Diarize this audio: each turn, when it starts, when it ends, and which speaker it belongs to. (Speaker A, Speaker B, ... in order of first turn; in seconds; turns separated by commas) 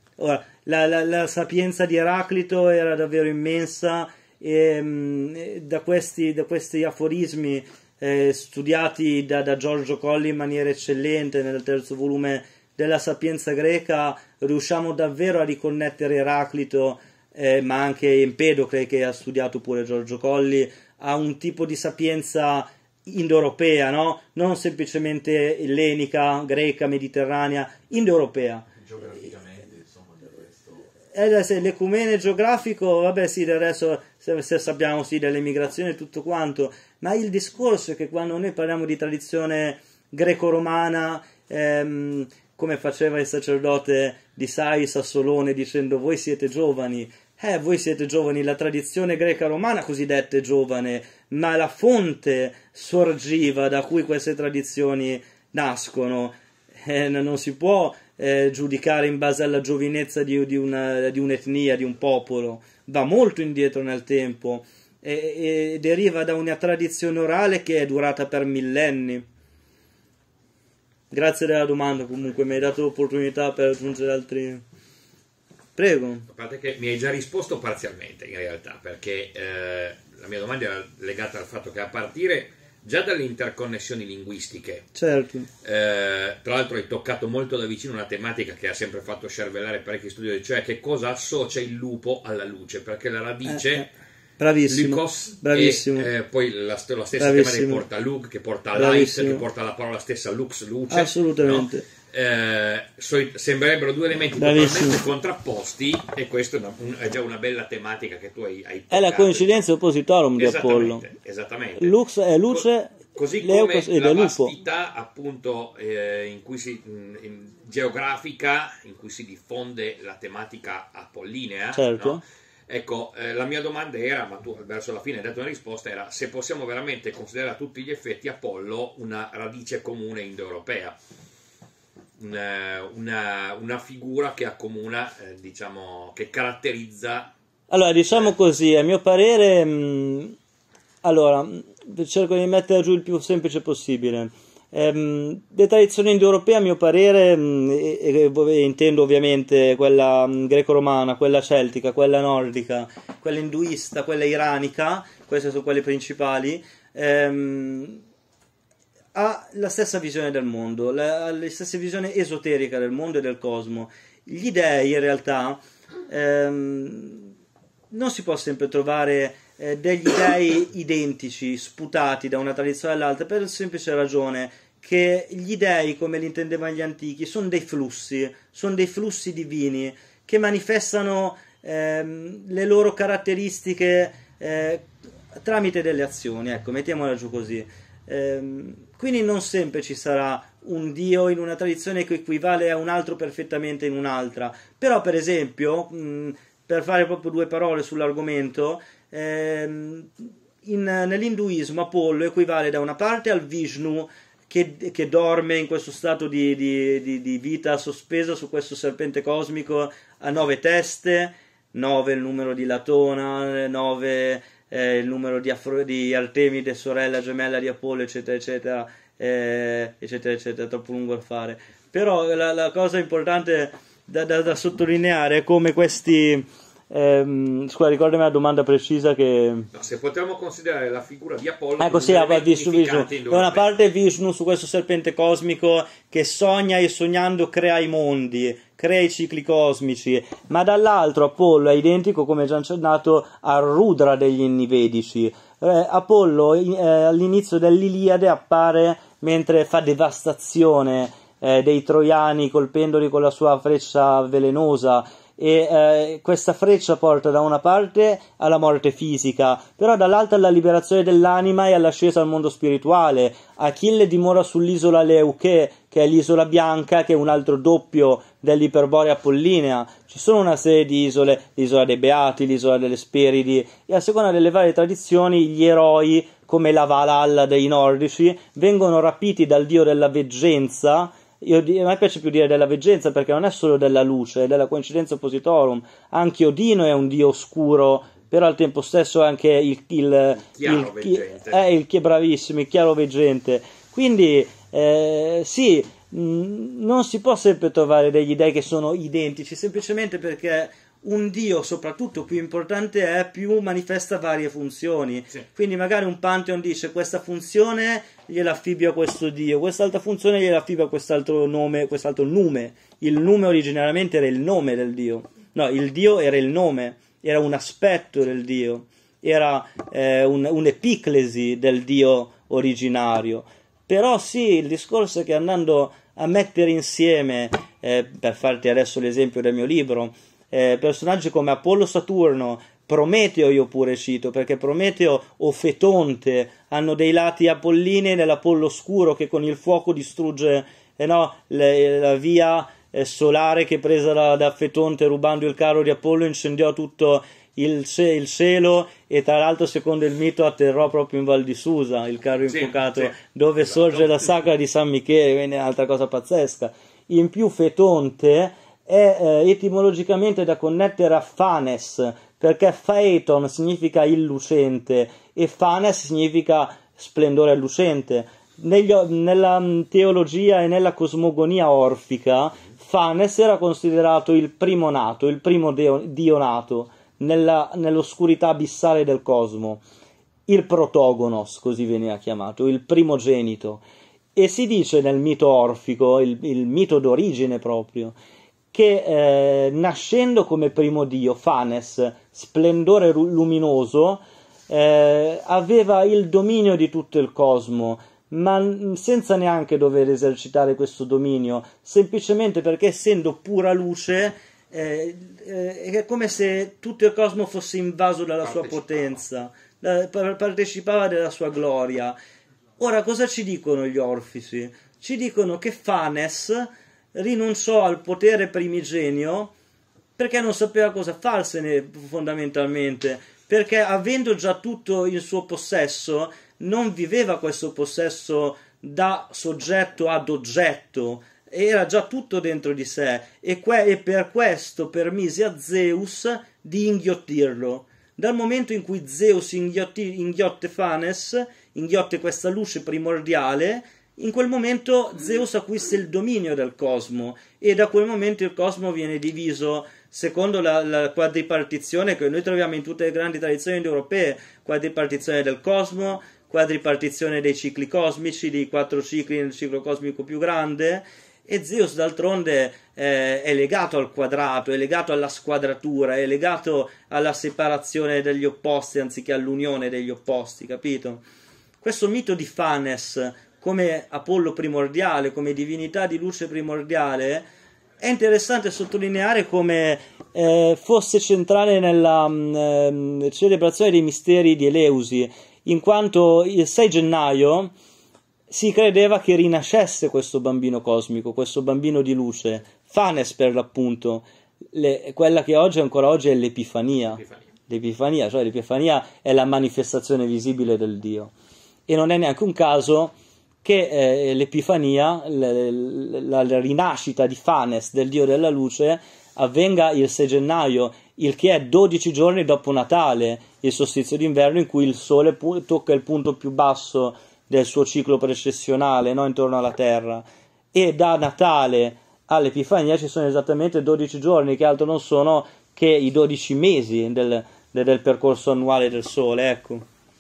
Speaker A: 0.2-28.6, Speaker B: 28.8-30.9, Speaker A: 31.1-69.3, Speaker A: 71.1-74.6, Speaker A: 75.8-76.3, Speaker C: 76.3-84.9, Speaker A: 85.0-85.5, Speaker C: 85.6-93.9, Speaker A: 93.5-93.9, Speaker A: 94.4-96.1, Speaker C: 94.7-109.7, Speaker A: 97.2-97.8, Speaker A: 98.8-99.4, Speaker A: 100.9-101.8, Speaker A: 104.4-105.0, Speaker A: 108.9-111.0, Speaker C: 110.4-112.0, Speaker A: 111.8-114.5, Speaker C: 112.5-131.0, Speaker A: 121.7-122.2, Speaker C: 132.2-137.3, Speaker A: 137.7-140.3, Speaker A: 141.0-158.0, Speaker A: 159.1-167.3, Speaker A: 167.9-229.7, Speaker C: 229.7-233.8, Speaker A: 231.8-379.8, Speaker C: 290.6-291.6, Speaker C: 352.5-353.1, Speaker C: 353.8-354.1, Speaker A: 380.5-383.8, Speaker A: 384.4-388.2, Speaker A: 388.7-412.2, Speaker A: 412.8-419.5, Speaker A: 420.2-471.2, Speaker A: 471.8-477.5, Speaker A: 478.0-487.7, Speaker A: 488.5-501.3, Speaker A: 501.9-529.9